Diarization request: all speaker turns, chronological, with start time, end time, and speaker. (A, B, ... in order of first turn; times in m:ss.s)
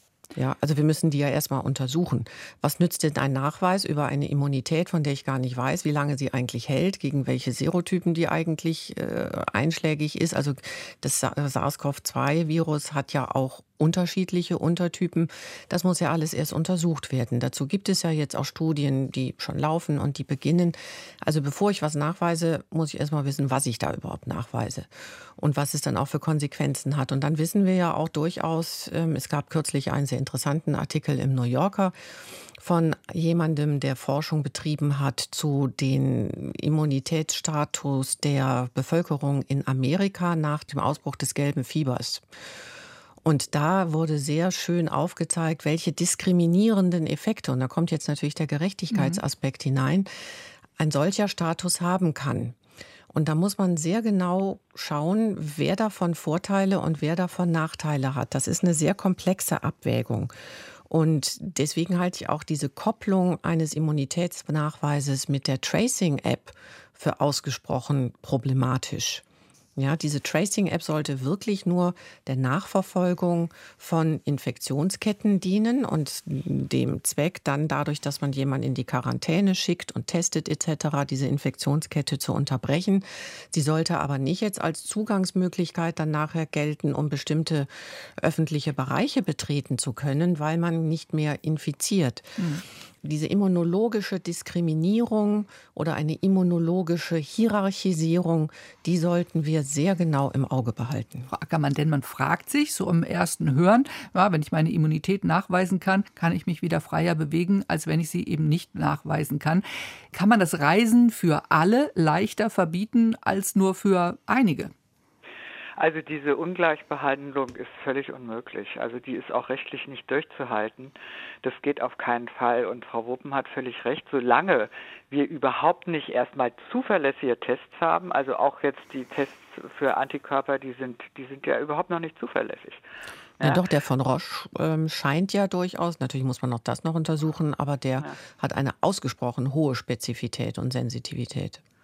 0:00.3-0:31.9 A
0:32.6-0:42.2 A
0:43.2-0:50.1 A
0:48.9-0:49.2 B
0:50.8-0:52.6 A
0:53.1-1:00.3 A
1:00.9-1:09.2 A
1:09.8-1:32.4 A
1:32.4-1:32.6 B
1:33.0-1:41.3 A
1:41.3-1:54.7 B
1:55.8-2:12.8 C
2:13.4-2:21.6 A